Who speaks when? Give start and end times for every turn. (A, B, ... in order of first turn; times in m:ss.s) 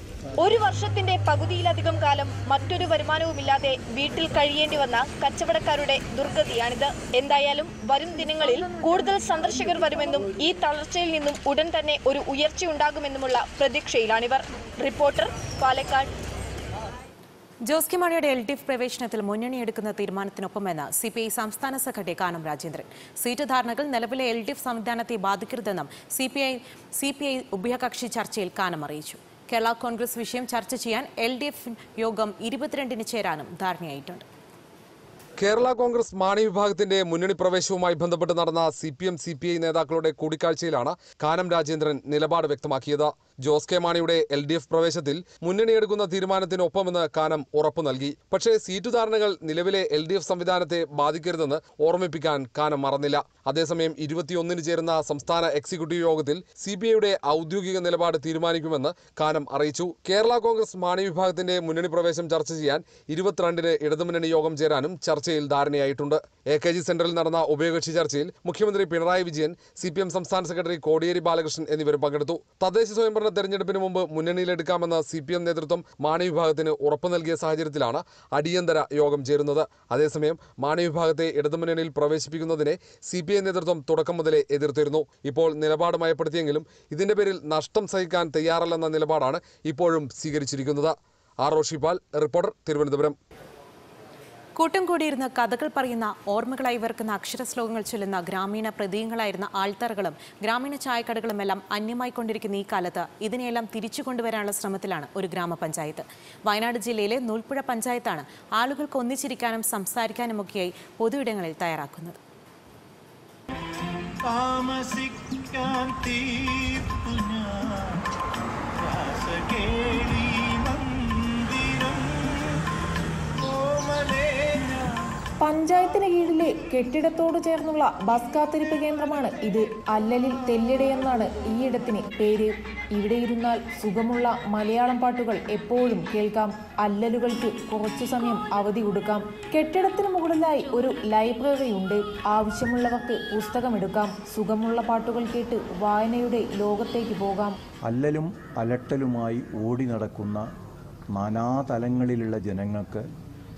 0:00.4-0:16.1 A
0:17.7-0:34.3 B
0:35.4-1:33.2 C
1:34.6-1:52.2 B
1:54.2-1:58.0 D
1:58.8-2:02.5 D
2:03.4-2:04.9 D
2:05.4-2:27.6 E
2:27.9-2:30.5 F
2:31.1-2:33.1 F